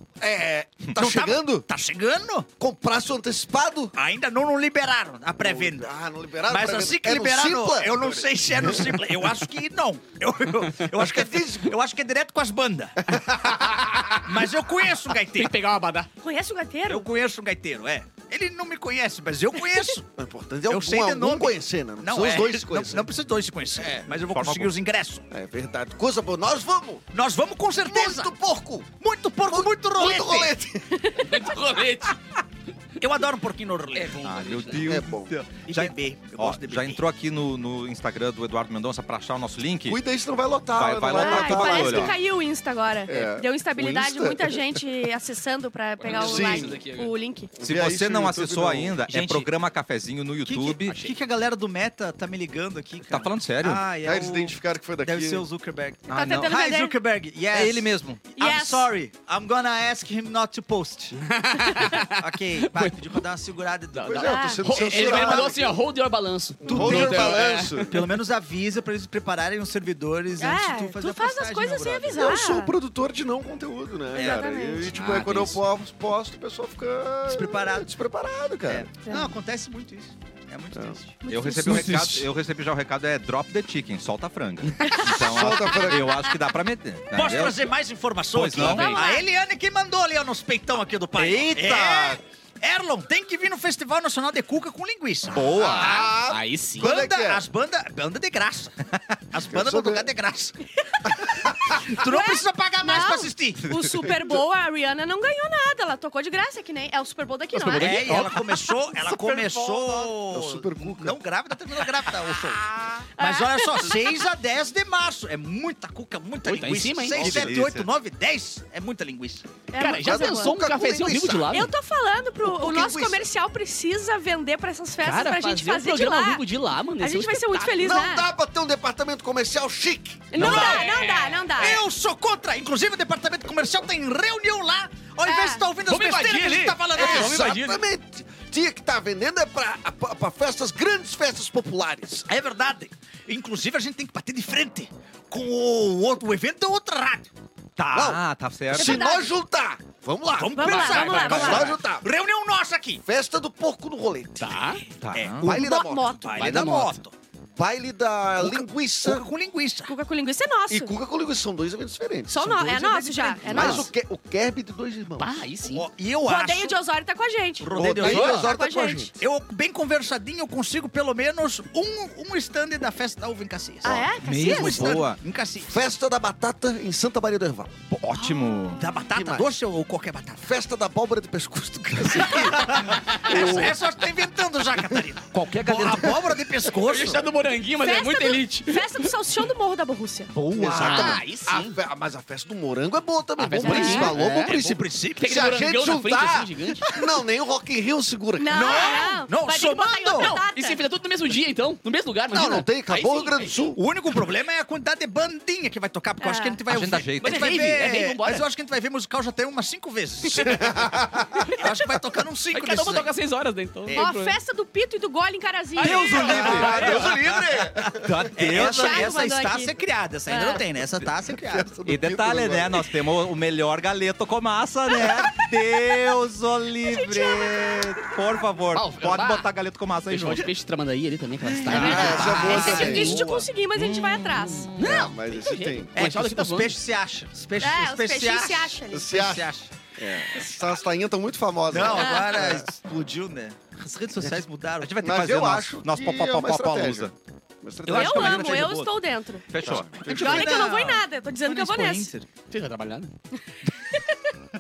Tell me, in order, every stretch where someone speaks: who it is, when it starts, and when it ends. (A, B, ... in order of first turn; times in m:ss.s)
0:00.2-0:01.6 A
0:00.9-0:02.5 B
0:02.6-0:03.9 A
0:03.9-0:13.1 B
0:05.4-0:09.0 A
0:10.9-0:11.7 A
0:13.7-0:14.2 C
0:14.1-0:15.5 B
0:15.3-0:16.1 C
0:16.2-0:17.1 D
0:16.9-0:20.1 B
0:20.2-0:23.1 A
0:20.6-0:25.3 B
0:24.1-0:24.7 E
0:25.3-0:27.0 A
0:27.1-0:30.6 B
0:27.8-0:28.9 A
0:29.5-0:31.1 A
0:31.0-0:31.3 D
0:31.2-0:32.2 C
0:33.0-0:34.7 B
0:33.9-0:34.9 C
0:34.2-0:40.0 E
0:34.8-0:35.3 A
0:35.5-0:37.0 B
0:39.9-0:42.2 A
0:40.8-0:42.2 E
0:41.2-0:47.5 D
0:43.1-0:44.8 A
0:46.0-0:47.1 C
0:46.1-0:46.8 A
0:47.6-0:49.0 A
0:47.6-0:51.0 E
0:49.1-0:49.5 B
0:50.4-1:01.2 B
0:53.1-0:53.8 E
0:54.0-0:55.4 A
0:56.1-0:57.0 D
0:57.5-0:58.2 E
0:58.3-0:58.9 D
1:01.2-1:03.1 C
1:02.0-1:05.5 B
1:03.9-1:08.1 C
1:04.1-1:05.8 A
1:04.2-1:05.5 D
1:06.6-1:08.0 A
1:06.6-1:12.3 B
1:10.4-1:12.7 D
1:12.1-1:19.0 A
1:14.1-1:15.0 D
1:14.1-1:15.6 B
1:15.0-1:15.5 C
1:17.3-1:17.9 B
1:18.7-1:21.2 B
1:20.7-1:21.0 A
1:21.2-1:22.0 D
1:21.3-1:27.6 E
1:21.8-1:22.2 A
1:25.1-1:26.2 A
1:27.1-1:35.8 B
1:28.3-1:28.9 E
1:28.6-1:29.1 C
1:28.6-1:29.2 D
1:31.2-1:32.2 E
1:35.3-1:36.1 E
1:35.4-1:37.4 A
1:36.2-1:36.9 C
1:36.8-1:40.6 B
1:39.4-1:40.1 A
1:40.8-1:48.8 D
1:41.6-1:43.7 B
1:47.5-1:48.4 C
1:47.7-1:59.5 B
1:50.1-1:51.2 A
1:53.2-1:54.3 D
1:56.4-1:57.4 C
1:57.1-1:57.9 E
1:59.7-2:00.6 D
1:59.8-2:01.7 C
2:00.0-2:01.7 A
2:01.5-2:06.4 D
2:02.4-2:03.3 A
2:05.0-2:07.9 C
2:07.0-2:08.3 D
2:07.8-2:10.4 A
2:10.3-2:11.8 D
2:10.3-2:11.7 C
2:10.4-2:10.8 B
2:11.5-2:17.5 B
2:15.2-2:15.6 D
2:15.8-2:17.8 C
2:16.9-2:22.3 A
2:22.3-2:27.3 B
2:27.8-2:29.1 E
2:27.9-2:28.2 A
2:28.7-2:32.0 A
2:28.8-2:29.3 D
2:30.3-2:33.0 B
2:30.5-2:31.8 D
2:30.8-2:31.6 C
2:33.1-2:34.7 A
2:34.4-2:34.8 C
2:35.0-2:35.5 E
2:35.1-2:37.1 B
2:35.4-2:36.9 A
2:35.4-2:36.7 D
2:36.4-2:37.0 C
2:37.6-2:39.2 A
2:38.4-2:39.9 B
2:39.9-2:40.9 D
2:40.7-2:42.5 A
2:42.3-2:43.8 D
2:42.4-2:43.9 B
2:43.4-2:45.4 A
2:43.4-2:43.9 C
2:45.2-2:45.9 C
2:45.6-2:46.8 B
2:46.2-2:49.1 D
2:47.6-2:48.6 B
2:47.8-2:49.1 A
2:47.9-2:48.4 E
2:49.2-2:55.8 B
2:53.8-2:55.1 D
2:54.2-2:55.2 E
2:55.7-2:57.8 A
2:57.9-2:58.8 E
2:58.8-3:00.5 B
2:59.1-2:59.5 A
3:00.4-3:03.8 A
3:02.1-3:07.3 B
3:05.5-3:06.2 A
3:05.8-3:06.1 E
3:06.8-3:09.1 C
3:07.8-3:10.3 D
3:10.4-3:11.2 B
3:10.4-3:19.0 A
3:10.6-3:11.8 C
3:13.4-3:16.8 C
3:13.6-3:14.2 D
3:13.8-3:15.3 B
3:18.4-3:20.8 D
3:18.5-3:20.4 B
3:20.2-3:22.7 C
3:22.3-3:23.8 A
3:22.9-3:33.1 B
3:26.2-3:26.6 D
3:26.7-3:27.5 E
3:27.2-3:28.4 C
3:30.4-3:31.3 A
3:32.5-3:34.4 C
3:33.9-3:36.7 D
3:35.8-3:37.0 C
3:35.8-3:37.2 E
3:35.8-3:37.7 B
3:36.2-3:38.3 A
3:37.8-3:39.2 E
3:38.3-3:41.7 B
3:38.4-3:39.7 D
3:40.3-3:40.6 D
3:41.3-3:42.9 A
3:41.8-3:50.5 E
3:45.1-3:45.4 D
3:46.8-3:48.1 D
3:48.7-3:49.5 C
3:50.1-3:53.0 C
3:51.6-3:53.4 B
3:51.6-3:53.1 E
3:51.7-3:53.4 A
3:51.8-3:54.8 D
3:53.7-3:54.7 E
3:54.6-3:56.8 C
3:54.8-3:55.9 A
3:55.9-3:59.7 B
3:57.6-3:59.1 D
3:58.9-4:02.7 A
4:00.3-4:00.6 D
4:01.7-4:04.9 B
4:01.9-4:02.4 D
4:04.8-4:07.1 E
4:05.0-4:07.1 A
4:07.6-4:08.7 A
4:07.8-4:08.9 E
4:07.9-4:09.5 D
4:09.5-4:10.1 E
4:09.6-4:10.7 A
4:10.0-4:12.3 B
4:10.1-4:12.1 D
4:12.5-4:13.1 C
4:13.8-4:14.3 D